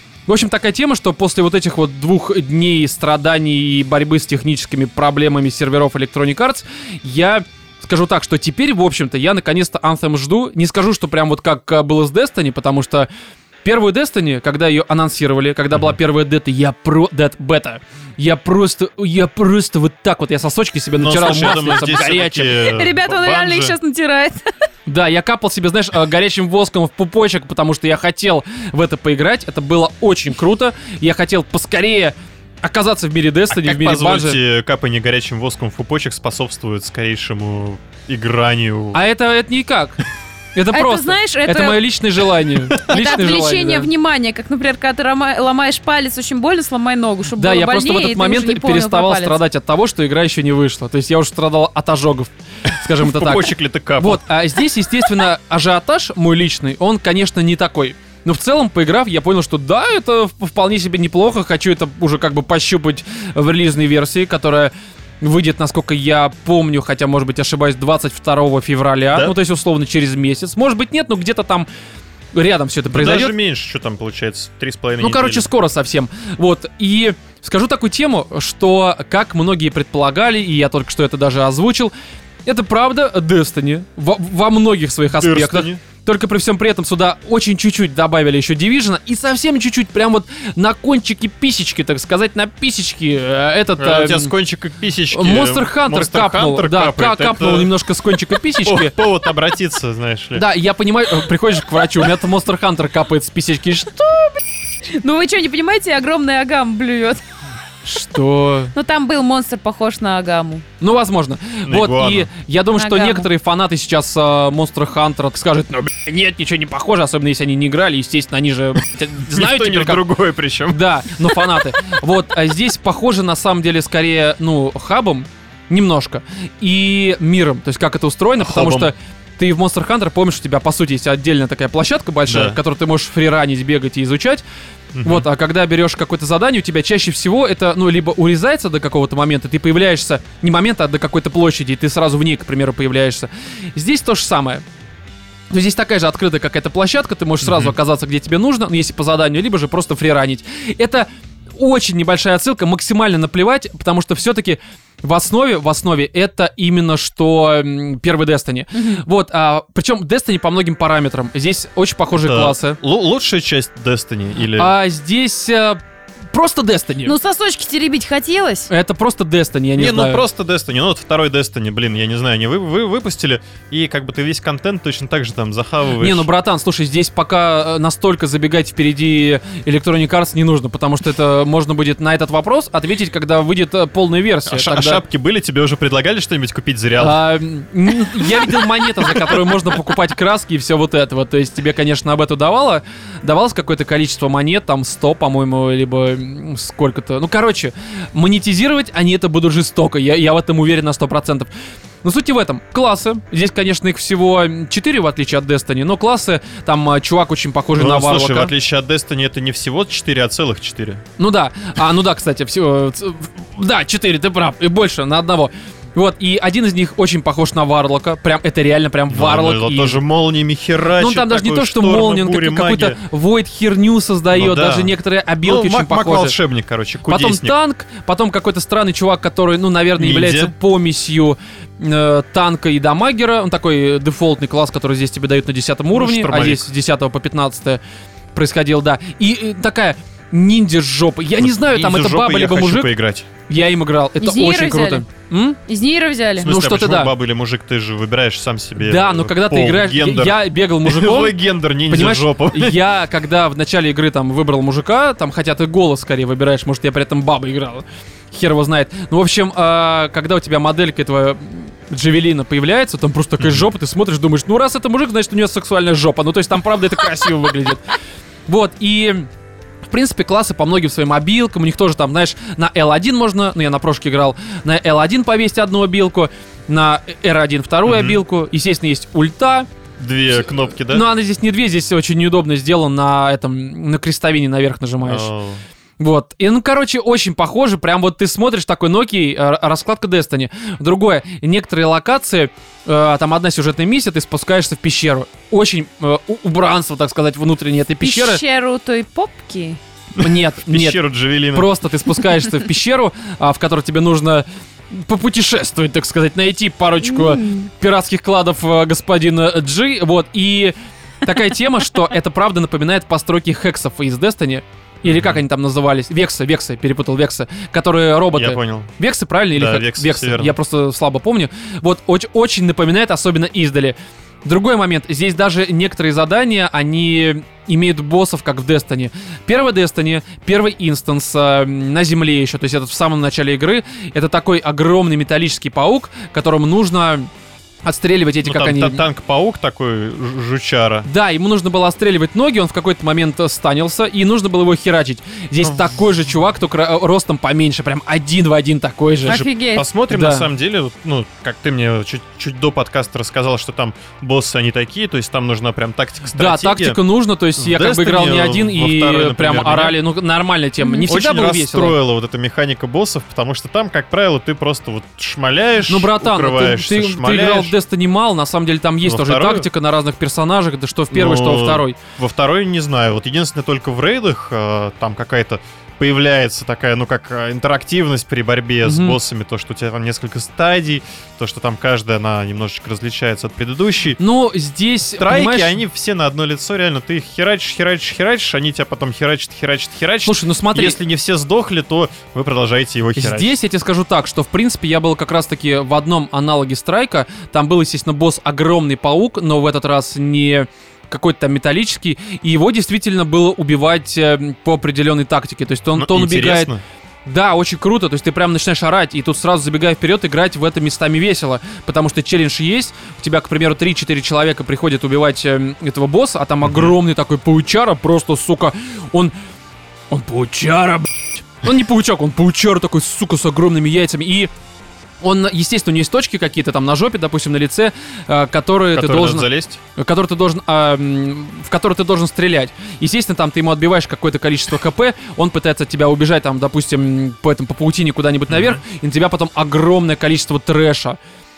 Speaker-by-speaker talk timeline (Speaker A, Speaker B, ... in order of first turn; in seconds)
Speaker A: 0.3-13.1, 13.6-22.6, 24.9-34.4, 38.9-40.0, 40.5-43.9, 47.4-71.7, 72.3-73.3, 75.0-81.9, 82.4-94.3, 95.1-98.9, 100.3-104.3, 107.8-108.7, 110.8-120.0, 120.7-134.4, 135.0-144.6, 145.5-162.8, 164.6-165.8, 166.3-167.1, 168.7-170.2, 176.0-185.0, 187.0-201.5, 202.0-208.5, 211.2-220.0, 221.0-226.3, 227.1-237.8, 238.3-242.9, 243.5-245.6, 246.4-247.1, 248.8-251.3, 251.9-267.8, 268.5-269.3, 269.9-279.7, 280.9-285.3, 286.0-298.4, 300.2-301.0, 301.5-337.3, 337.8-339.0, 341.1-349.4, 350.1-350.5, 356.3-361.9, 365.9-371.9, 378.8-379.2, 384.2-385.8, 390.2-390.9, 393.2-406.7, 407.2-419.3, 420.1-424.5, 425.2-441.2
Speaker B: 21.0-23.8, 33.5-39.0, 53.0-54.2, 72.9-75.5, 85.1-85.8, 93.8-97.7, 98.6-100.4, 111.6-112.3, 119.3-120.8, 128.4-128.9, 132.3-132.6, 134.9-135.3, 147.4-147.7, 162.2-164.7, 169.8-176.3, 184.5-187.2, 188.3-189.5, 207.7-211.0, 219.1-223.0, 224.3-227.5, 230.0-230.5, 235.9-236.7, 241.4-243.3, 246.4-252.8, 263.4-263.7, 277.9-278.2, 280.0-281.1, 285.0-285.6, 300.2-301.7, 315.0-315.4, 318.3-318.9, 319.5-320.5, 338.4-341.1, 349.2-357.0, 357.6-359.9, 361.1-367.7, 369.0-369.6, 371.1-384.2, 385.2-393.5, 405.9-406.8, 416.6-416.9, 428.9-429.8, 438.5-438.8
Speaker C: 22.5-24.5, 40.7-41.8, 42.8-49.4, 104.9-107.2, 108.7-110.6, 112.7-113.2, 158.8-159.0, 167.0-168.7, 244.2-245.0, 245.7-246.5, 298.0-299.8, 307.0-307.7, 349.2-349.8, 360.8-361.1